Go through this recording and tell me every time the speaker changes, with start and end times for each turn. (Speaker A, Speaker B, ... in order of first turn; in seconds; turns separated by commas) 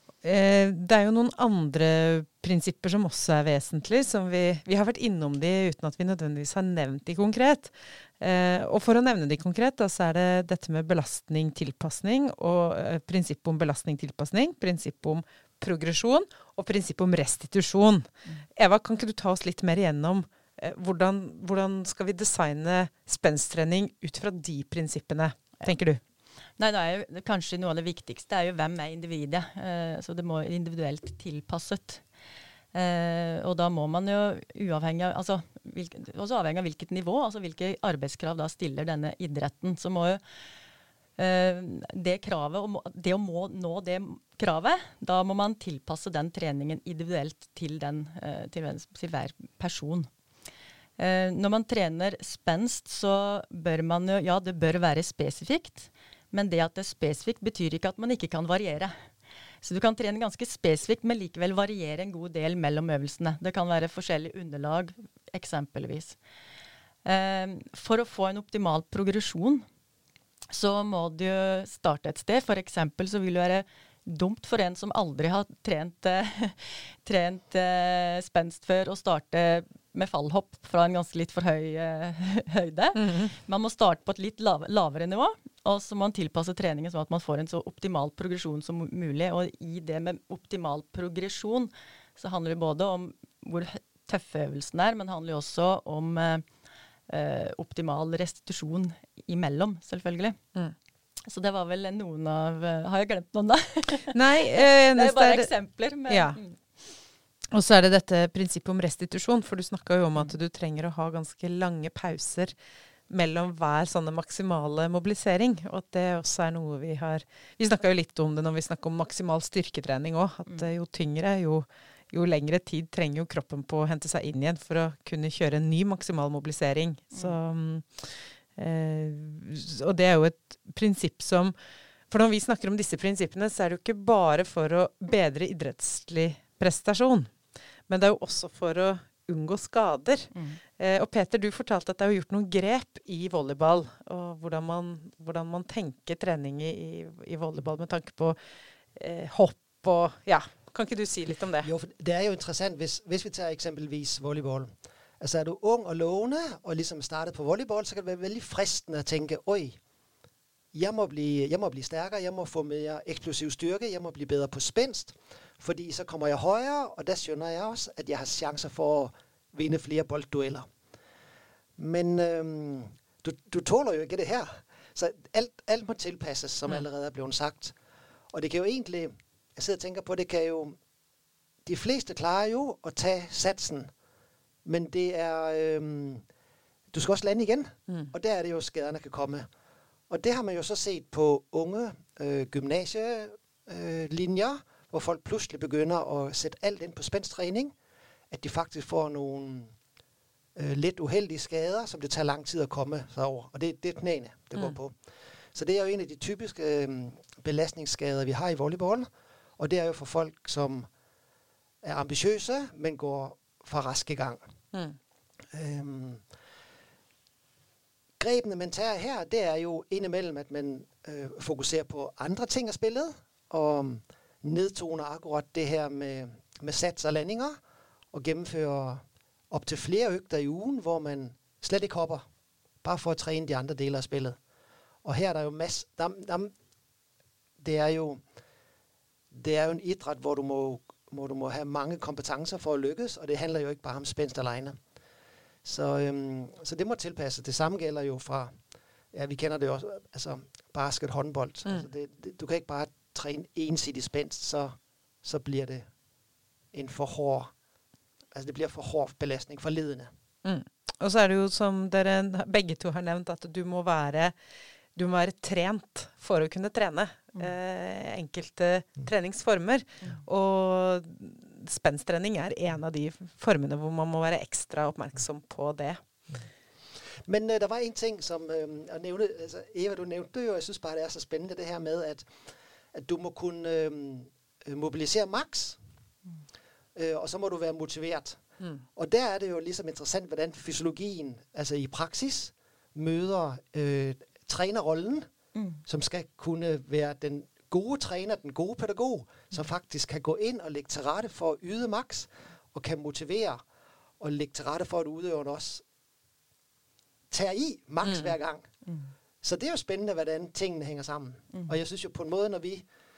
Speaker A: 0.2-26.0, Speaker B: 26.6-32.0, Speaker B: 32.7-40.2, Speaker B: 41.2-50.1, Speaker B: 51.0-58.9, Speaker B: 59.6-66.2, Speaker B: 67.0-69.7, Speaker B: 70.5-96.4, Speaker A: 83.0-83.3, Speaker B: 97.1-100.4, Speaker B: 101.3-106.6, Speaker A: 104.1-105.5, Speaker A: 106.1-106.4, Speaker A: 107.5-112.5, Speaker A: 113.1-131.6, Speaker A: 132.1-137.3, Speaker A: 137.9-148.4, Speaker B: 140.3-140.6, Speaker A: 149.0-151.7, Speaker C: 151.6-159.8, Speaker C: 160.7-170.7, Speaker C: 171.8-177.7, Speaker C: 178.3-180.8, Speaker C: 181.7-183.9, Speaker C: 184.7-186.2, Speaker C: 186.9-189.5, Speaker C: 190.1-197.8, Speaker C: 198.3-199.7, Speaker C: 200.6-204.9, Speaker C: 205.5-210.9, Speaker C: 211.8-214.4, Speaker C: 215.5-216.2, Speaker C: 218.2-227.6, Speaker C: 228.1-232.2, Speaker C: 232.8-234.4, Speaker C: 235.0-236.5, Speaker C: 237.6-238.2, Speaker C: 239.3-244.8, Speaker C: 245.6-248.5, Speaker C: 249.1-255.9, Speaker C: 256.7-257.5, Speaker C: 258.3-260.1, Speaker A: 260.4-264.4, Speaker A: 265.0-276.0, Speaker C: 277.3-282.3, Speaker C: 282.9-285.8, Speaker C: 286.9-288.4, Speaker C: 289.0-295.3, Speaker B: 295.6-295.8, Speaker C: 295.9-303.6, Speaker C: 304.2-305.8, Speaker C: 307.3-308.6, Speaker A: 308.1-308.3, Speaker C: 309.4-312.9